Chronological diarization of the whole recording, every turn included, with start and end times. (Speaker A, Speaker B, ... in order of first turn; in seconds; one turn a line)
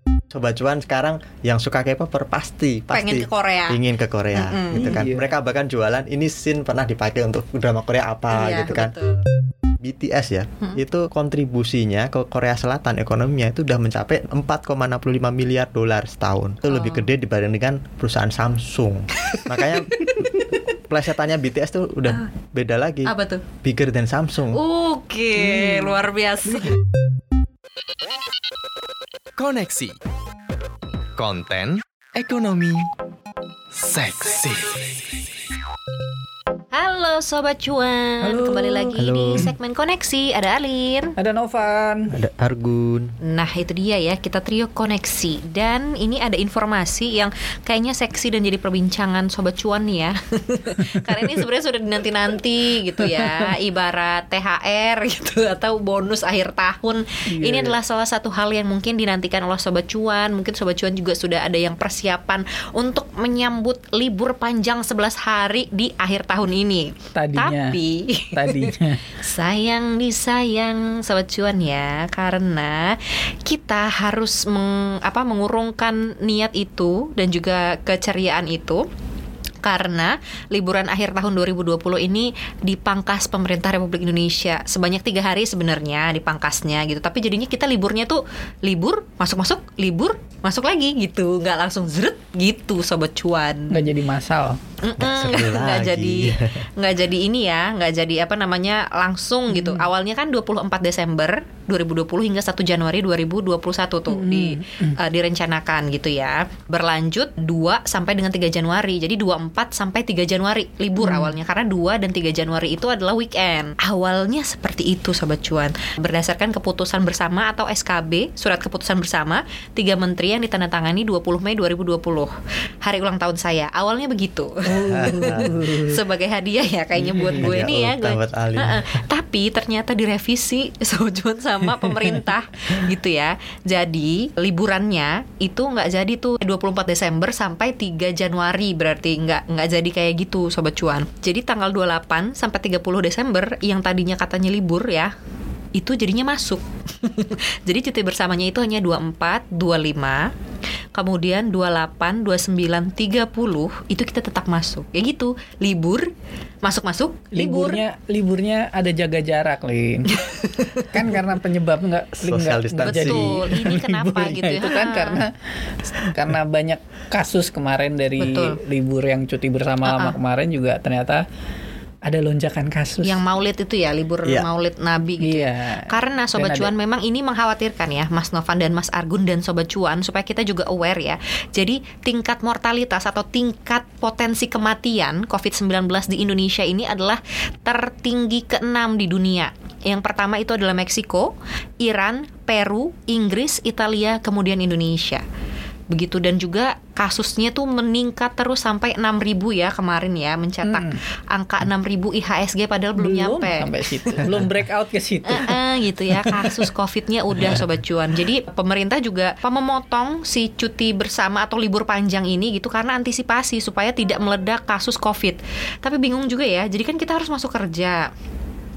Speaker A: 0.3-8.9
Speaker B: 2.9-3.8
Speaker B: 4.3-5.0
Speaker C: 4.7-5.3
Speaker B: 8.3-9.2
Speaker A: 9.8-20.3
Speaker B: 16.7-17.1
Speaker B: 19.3-20.1
Speaker A: 20.9-24.6
Speaker B: 23.1-23.4
Speaker B: 24.5-26.8
Speaker C: 25.4-26.0
Speaker D: 29.4-30.0
Speaker D: 31.2-32.9
Speaker D: 33.7-35.3
Speaker B: 36.7-41.2
Speaker C: 38.2-39.5
Speaker A: 39.0-39.5
Speaker C: 41.2-42.1
Speaker A: 42.1-43.1
Speaker B: 43.2-78.8
Speaker C: 53.0-53.5
Speaker C: 57.3-57.8
Speaker C: 67.2-67.8
Speaker C: 68.3-69.0
Speaker B: 79.6-93.8
Speaker C: 93.7-94.6
Speaker B: 94.8-122.3
Speaker A: 95.0-96.7
Speaker C: 99.5-99.9
Speaker C: 104.1-105.0
Speaker C: 111.0-111.4
Speaker B: 122.8-145.1
Speaker C: 124.7-126.0
Speaker A: 124.9-125.5
Speaker C: 127.0-127.7
Speaker A: 127.4-128.8
Speaker B: 145.8-150.3
Speaker B: 150.9-156.1
Speaker B: 156.6-157.8
Speaker C: 157.3-160.1
Speaker B: 160.1-160.9
Speaker C: 160.9-165.4
Speaker A: 162.2-163.5
Speaker B: 162.8-165.2
Speaker C: 166.1-171.2
Speaker B: 168.2-168.6
Speaker B: 169.8-170.2
Speaker C: 172.1-173.2
Speaker B: 173.0-195.2
Speaker C: 175.2-176.7
Speaker B: 195.9-204.2
Speaker C: 200.6-201.0
Speaker C: 203.0-205.6
Speaker B: 205.3-218.1
Speaker C: 206.1-206.7